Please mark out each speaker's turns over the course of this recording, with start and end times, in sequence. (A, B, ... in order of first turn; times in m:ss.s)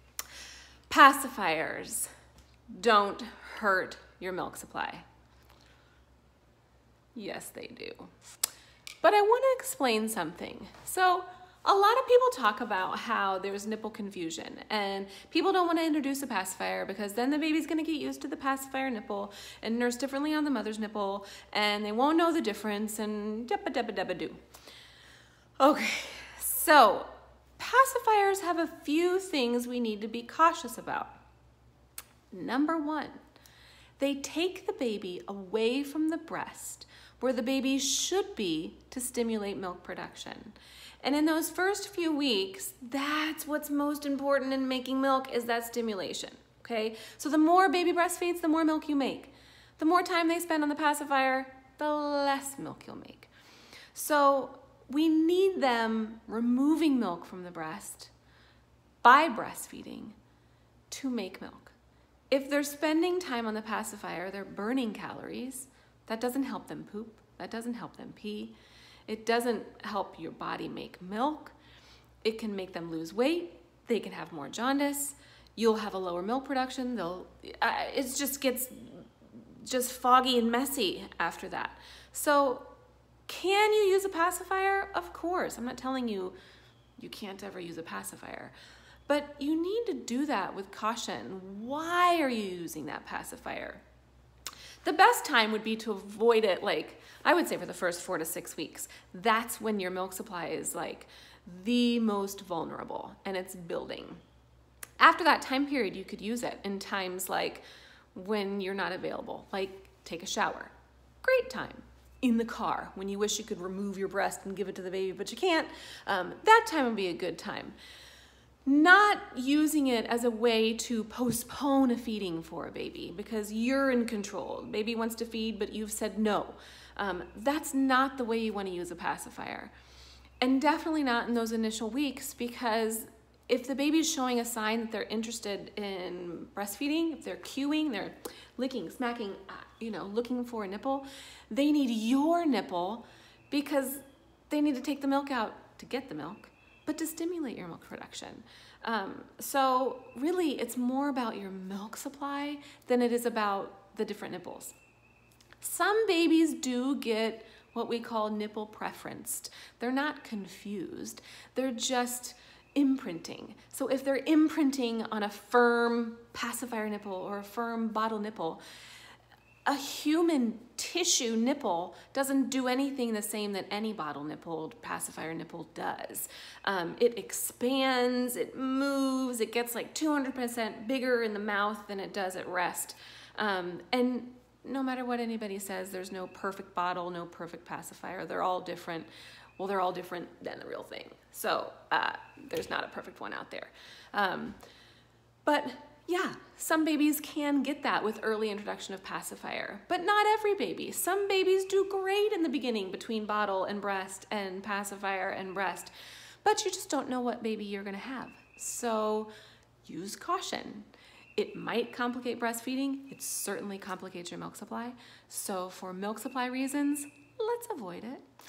0:00.9-0:02.1 A
0:02.7-0:05.0 A
0:07.1-0:08.1 A
0:09.0-0:24.4 A
0:25.6-0:31.2 A
0:32.3-0:33.2 A
0:34.0-0:53.3 A
0:53.9-0:58.1 A
0:59.0-1:00.2 A
1:00.9-1:01.7 A
1:02.3-1:08.6 A
1:09.1-1:11.5 A
1:12.2-1:19.1 A
1:19.6-1:22.7 A
1:23.3-1:26.4 A
1:27.0-1:28.5 A
1:29.1-1:33.8 A
1:34.8-1:44.2 A
1:45.0-1:57.8 A
1:58.6-2:09.7 A
2:10.4-2:34.8 A
2:35.6-2:48.6 A
2:49.6-3:14.6 A
3:15.4-3:25.9 A
3:26.4-3:29.3 A
3:29.8-3:38.2 A